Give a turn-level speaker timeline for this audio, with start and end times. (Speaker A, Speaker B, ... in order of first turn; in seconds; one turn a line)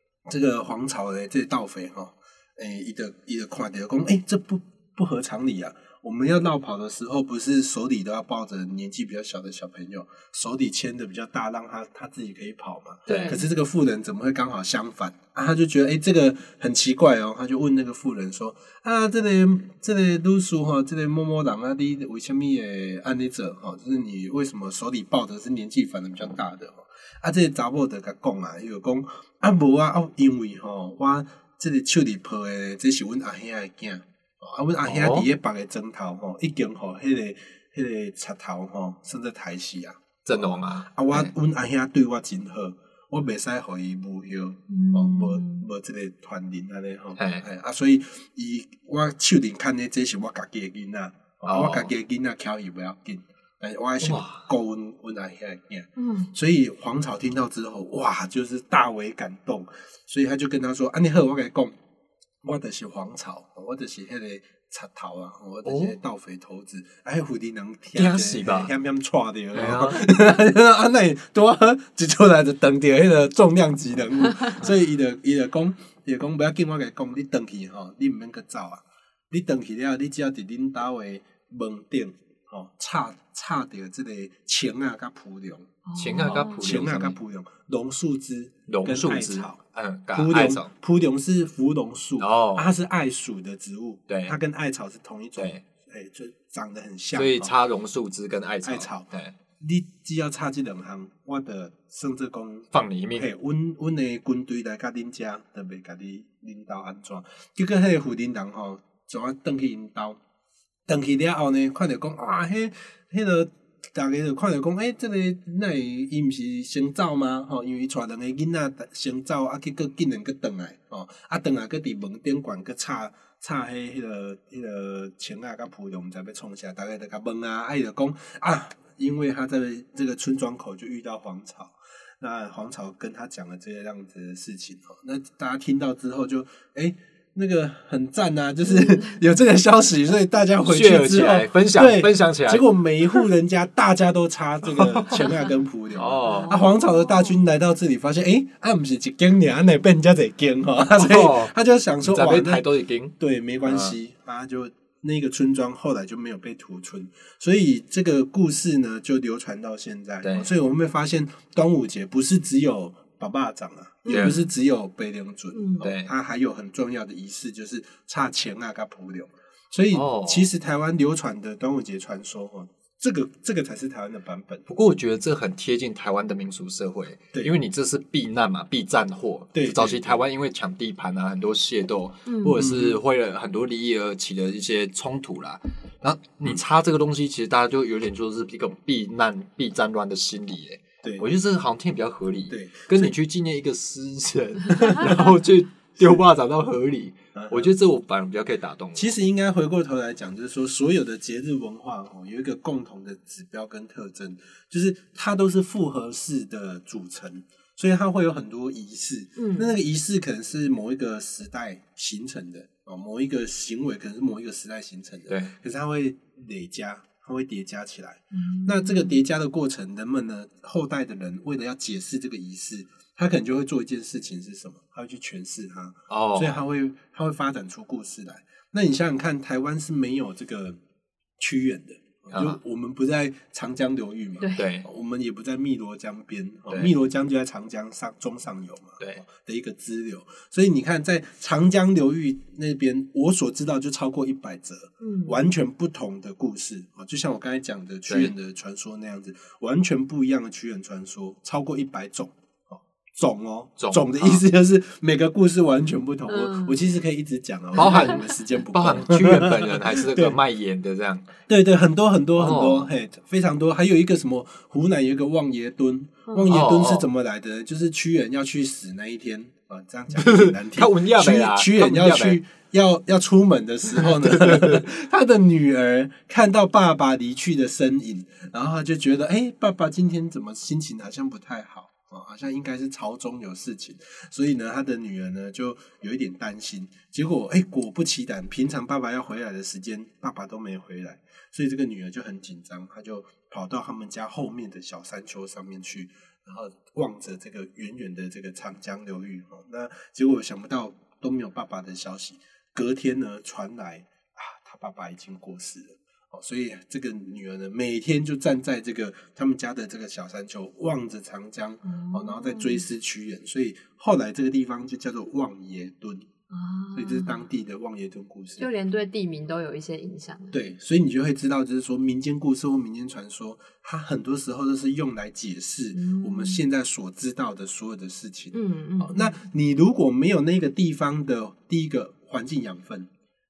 Speaker A: 0.3-61.7
Speaker B: 13.1-13.4
Speaker C: 13.1-13.4
Speaker B: 34.8-35.3
Speaker B: 40.2-41.3
Speaker C: 44.7-45.6
Speaker B: 47.2-47.5
Speaker B: 51.4-51.9
Speaker B: 54.0-54.5
Speaker C: 56.0-56.3
Speaker A: 62.4-89.6
Speaker B: 65.7-66.0
Speaker B: 68.0-68.7
Speaker B: 69.5-70.1
Speaker C: 85.9-86.6
Speaker B: 86.0-87.2
Speaker B: 88.7-90.7
Speaker A: 90.1-97.5
Speaker B: 92.2-92.7
Speaker B: 94.1-94.3
Speaker B: 95.4-95.6
Speaker B: 97.1-99.3
Speaker A: 98.6-110.2
Speaker B: 102.7-103.3
Speaker A: 110.9-152.7
Speaker C: 138.8-139.0
Speaker B: 140.6-142.7
Speaker B: 145.9-146.6
Speaker C: 146.2-147.3
Speaker B: 150.9-151.5
Speaker B: 152.0-153.1
Speaker A: 153.2-174.7
Speaker B: 153.7-154.0
Speaker B: 160.2-160.5
Speaker C: 164.1-164.4
Speaker B: 164.1-164.4
Speaker C: 165.5-165.9
Speaker B: 165.8-166.1
Speaker B: 169.9-170.5
Speaker B: 174.7-199.1
Speaker A: 179.5-180.2
Speaker C: 182.3-182.6
Speaker A: 182.6-183.0
Speaker A: 192.5-193.2
Speaker A: 194.8-195.2
Speaker A: 197.3-197.7
Speaker A: 198.9-230.8
Speaker C: 209.4-209.7
Speaker B: 215.3-215.5
Speaker C: 218.3-219.2
Speaker B: 226.1-226.6
Speaker A: 231.4-260.4
Speaker B: 232.3-232.6
Speaker C: 234.4-234.7
Speaker B: 234.6-234.9
Speaker C: 245.0-245.4
Speaker B: 248.1-248.3
Speaker B: 253.8-254.4
Speaker C: 256.3-256.8
Speaker B: 257.8-261.3
Speaker C: 257.8-258.2
Speaker A: 261.5-316.3
Speaker B: 262.4-262.9
Speaker B: 266.5-267.1
Speaker B: 270.1-272.4
Speaker B: 273.9-274.9
Speaker C: 311.8-312.8
Speaker C: 316.5-317.4
Speaker A: 316.9-318.7
Speaker C: 318.6-320.6
Speaker A: 320.5-333.1
Speaker C: 325.9-326.6
Speaker C: 328.5-329.4